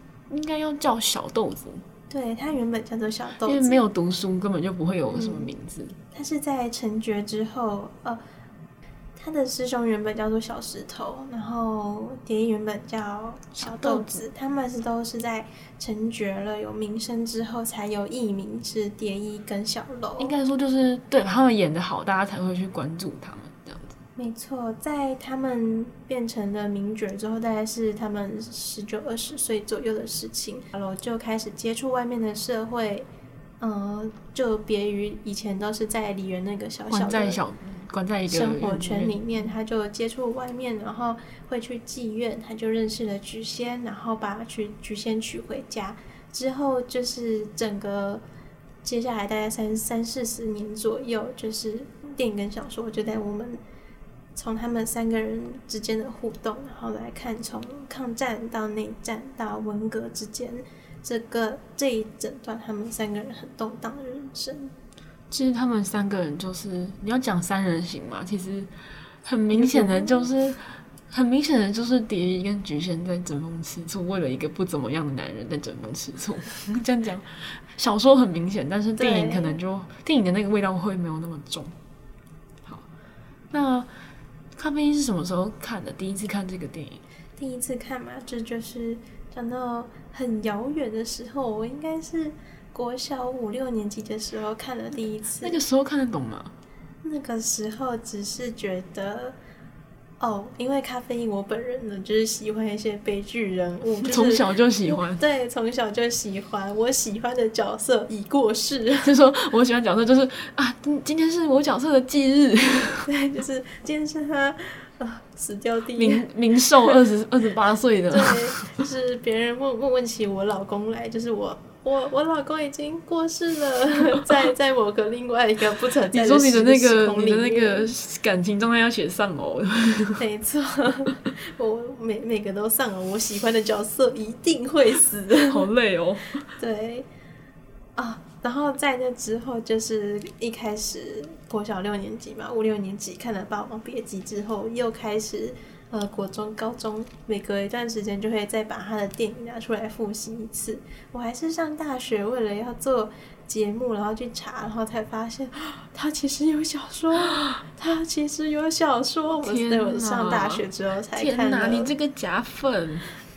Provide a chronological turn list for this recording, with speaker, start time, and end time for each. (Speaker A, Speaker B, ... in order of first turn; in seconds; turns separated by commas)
Speaker A: 0.3-1.8, Speaker B: 2.1-3.8, Speaker A: 3.4-6.0, Speaker B: 5.1-5.5, Speaker B: 6.1-8.2, Speaker B: 9.2-20.3, Speaker A: 13.6-14.2, Speaker A: 20.2-24.0, Speaker B: 24.2-33.1, Speaker B: 33.6-37.4, Speaker A: 36.9-39.2, Speaker B: 38.3-48.2, Speaker B: 48.8-53.6, Speaker B: 54.3-64.7, Speaker A: 65.3-68.7, Speaker A: 69.2-81.7, Speaker B: 69.5-70.3, Speaker B: 79.0-79.6, Speaker A: 83.5-83.9, Speaker A: 84.5-87.0, Speaker B: 87.4-95.6, Speaker A: 95.4-96.5, Speaker B: 97.0-99.3, Speaker B: 100.2-109.1, Speaker A: 104.0-105.2, Speaker A: 109.0-113.1, Speaker B: 113.1-116.3, Speaker A: 115.9-118.7, Speaker B: 118.1-127.9, Speaker A: 126.1-130.2, Speaker B: 130.2-135.7, Speaker A: 135.5-136.4, Speaker B: 136.6-137.1, Speaker B: 137.9-161.9, Speaker A: 159.4-163.1